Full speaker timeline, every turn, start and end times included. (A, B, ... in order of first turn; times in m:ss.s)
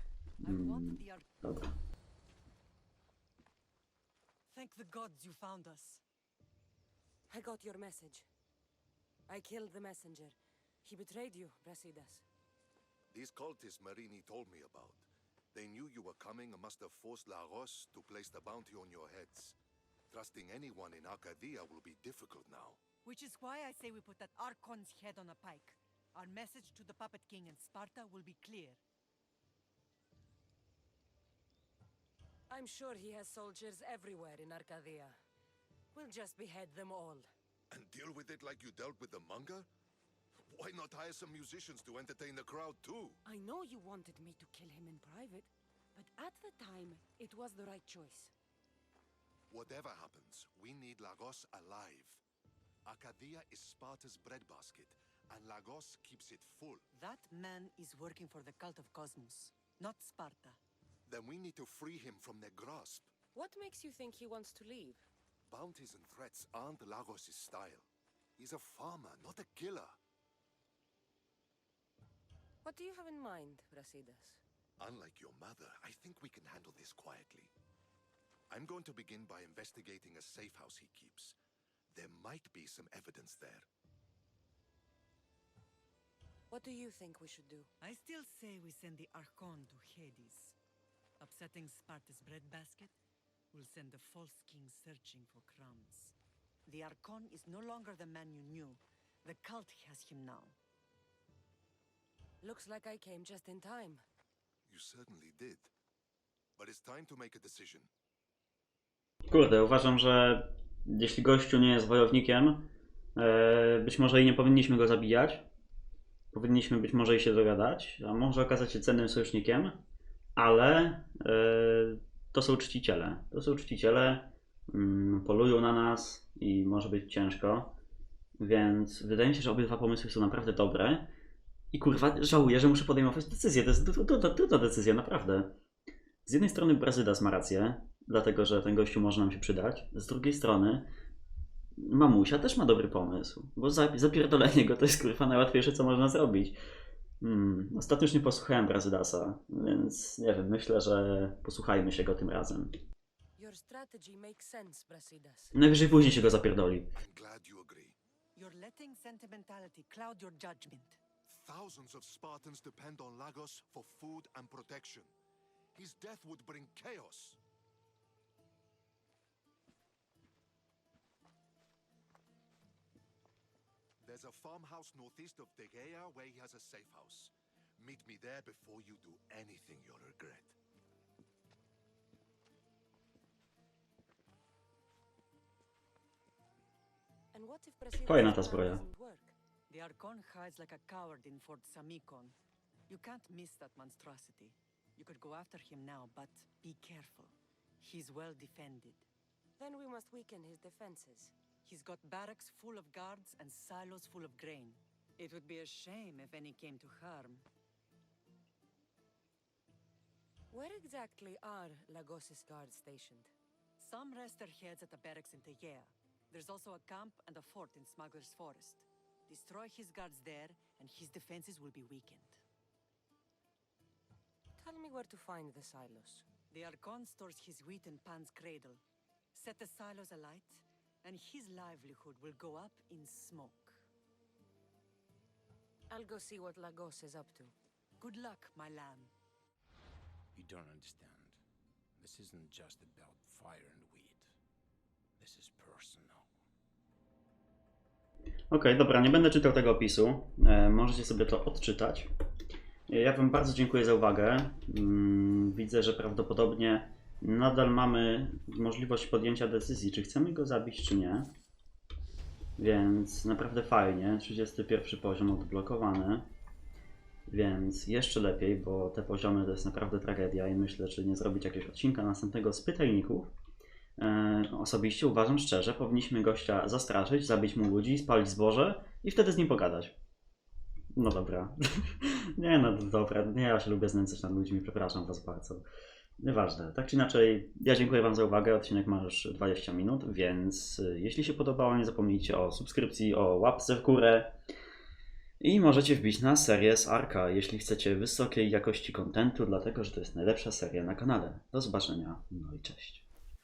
0:00.4-0:01.8 A
0:00.4-0:01.3 B
0:04.5-0:06.0 B
0:07.3-0:08.3 C
0:09.3-0:12.2 C
0:13.1-0:19.6 D
0:20.1-0:22.8 D
0:23.0-0:28.8 B
0:32.5-0:35.2 C
0:35.9-0:37.3 C
0:37.7-0:39.7 D
0:40.5-0:43.2 D
0:43.2-0:48.3 C
0:49.5-0:52.2 D
0:52.8-0:56.9 D
0:56.9-1:00.6 B
1:01.1-1:03.1 D
1:03.3-1:05.1 C
1:05.5-1:10.0 D
1:12.6-1:14.4 C
1:14.8-1:17.5 D
1:18.5-1:21.4 D
1:21.9-1:23.7 D
1:26.5-1:27.7 C
1:27.8-1:30.6 B
1:31.2-1:32.9 B
1:33.5-1:40.6 B
1:42.4-1:44.0 C
1:44.7-1:45.7 D
1:46.6-1:47.9 D
1:49.3-1:55.5 A
1:56.3-1:59.8 A
2:00.4-2:07.8 A
2:08.4-2:11.1 A
2:11.7-2:15.6 A
2:16.3-2:20.9 A
2:21.8-2:26.6 A
2:27.2-2:32.8 A
2:33.4-2:35.6 C
2:35.5-2:37.0 A
2:36.9-2:38.0 D
2:38.4-2:41.0 B
2:41.3-2:45.1 D
2:45.7-2:47.4 D
2:54.0-3:00.6 D
3:07.3-3:09.3 C
3:08.1-3:08.8 A
3:09.7-3:12.4 B
3:12.9-3:19.1 B
3:19.6-3:21.3 C
3:21.6-3:27.5 B
3:30.5-3:33.3 C
3:33.8-3:42.4 B
3:44.6-3:46.3 C
3:46.5-3:48.8 B
3:49.3-3:53.8 B
3:55.9-3:57.5 C
3:58.0-3:59.1 B
4:00.4-4:01.4 E
4:02.0-4:04.3 E
4:05.2-4:06.3 E
4:08.5-4:12.1 A
4:12.9-4:21.3 A
4:22.6-4:26.3 A
4:27.3-4:33.3 A
4:34.0-4:40.0 A
4:41.0-4:45.6 A
4:46.2-4:54.4 A
4:55.4-5:03.1 A